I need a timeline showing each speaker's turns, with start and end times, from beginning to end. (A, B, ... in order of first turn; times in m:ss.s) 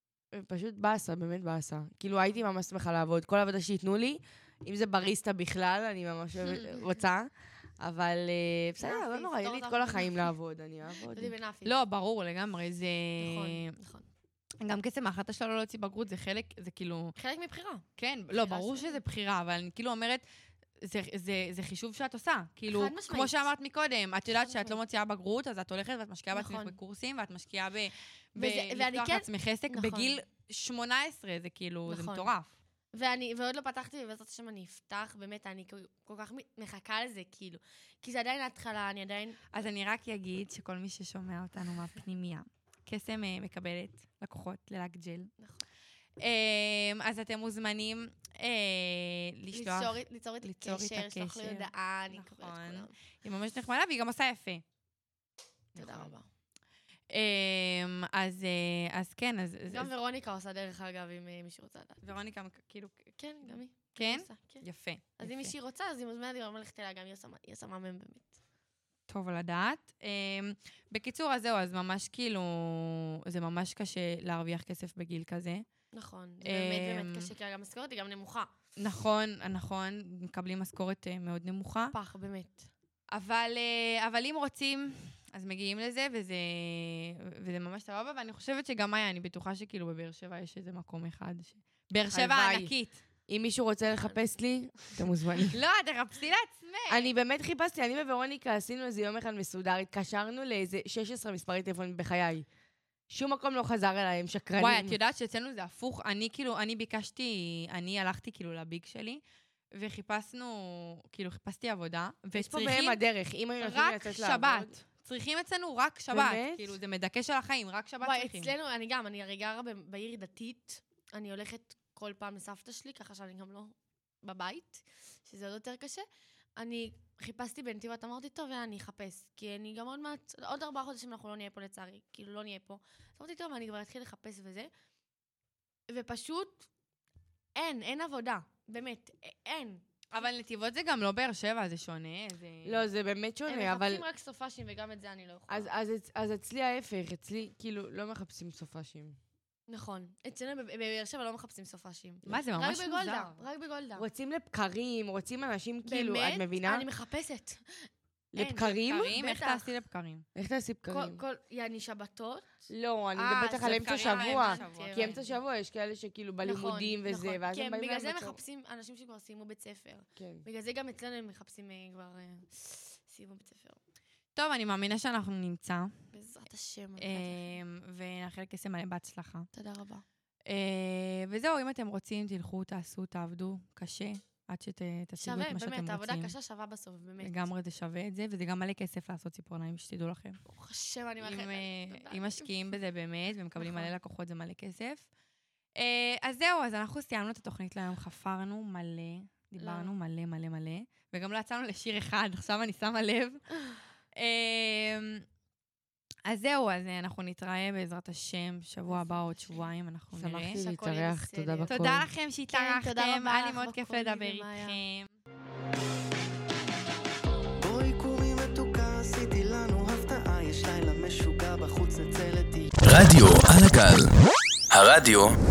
0:00.3-0:11.3 A
0:08.8-0:10.2 B
0:11.1-0:11.8 B
0:11.6-0:13.7 C
0:13.2-0:14.1 B
0:14.6-0:17.2 C
0:17.2-0:19.0 B
0:18.0-0:20.2 C
0:20.8-0:32.5 C
0:22.7-0:23.5 B
0:24.3-0:24.8 B
0:26.3-0:26.8 B
0:28.4-0:30.2 B
0:31.9-0:32.3 B
0:32.9-0:39.5 B
0:39.5-0:45.3 C
0:45.4-0:45.6 B
0:46.2-0:54.6 C
0:49.5-0:52.9 B
0:55.8-0:56.0 A
0:55.8-0:56.3 B
0:57.1-0:59.9 C
0:59.7-1:02.0 B
1:02.0-1:05.5 C
1:03.2-1:04.6 B
1:05.2-1:08.4 B
1:09.1-1:15.6 C
1:15.9-1:18.5 B
1:16.4-1:17.3 C
1:18.8-1:21.9 C
1:21.9-1:22.7 B
1:23.1-1:33.0 C
1:32.1-1:32.7 A
1:33.3-1:35.6 A
1:35.4-1:37.1 C
1:36.9-1:42.4 A
1:43.1-1:45.0 A
1:44.6-1:49.2 C
1:49.7-1:53.0 C
1:52.3-1:54.7 A
1:53.6-1:58.5 C
1:56.1-1:56.8 A
1:58.0-2:14.7 B
2:15.9-2:16.7 B
2:17.6-2:19.8 B
2:20.1-2:22.8 C
2:22.6-2:24.0 A
2:23.5-2:25.7 B
2:25.5-2:29.2 A
2:29.7-2:34.1 B
2:32.2-2:33.4 C
2:34.0-2:36.8 A
2:35.8-2:39.8 B
2:38.3-2:39.1 A
2:38.7-2:40.2 C
2:40.3-2:41.2 A
2:40.9-2:42.5 B
2:42.7-2:48.4 A
2:43.1-2:45.3 B
2:43.2-2:45.3 C
2:46.4-2:53.8 B
2:50.2-2:50.4 A
2:54.4-2:55.9 C
2:56.1-2:57.5 B
2:57.0-2:59.5 C
2:59.5-3:00.0 B
3:00.5-3:06.3 C
3:05.2-3:07.5 B
3:07.2-3:10.4 C
3:10.4-3:12.5 B
3:11.2-3:15.0 C
3:13.6-3:13.9 B
3:15.8-3:23.5 C
3:19.6-3:19.9 B
3:24.2-3:25.2 C
3:26.2-3:30.6 C
3:28.9-3:29.6 B
3:30.2-3:32.0 A
3:30.5-3:31.8 B
3:31.7-3:35.1 C
3:32.5-3:34.8 B
3:37.6-3:42.7 D
3:42.8-3:44.2 E
3:44.7-3:45.3 E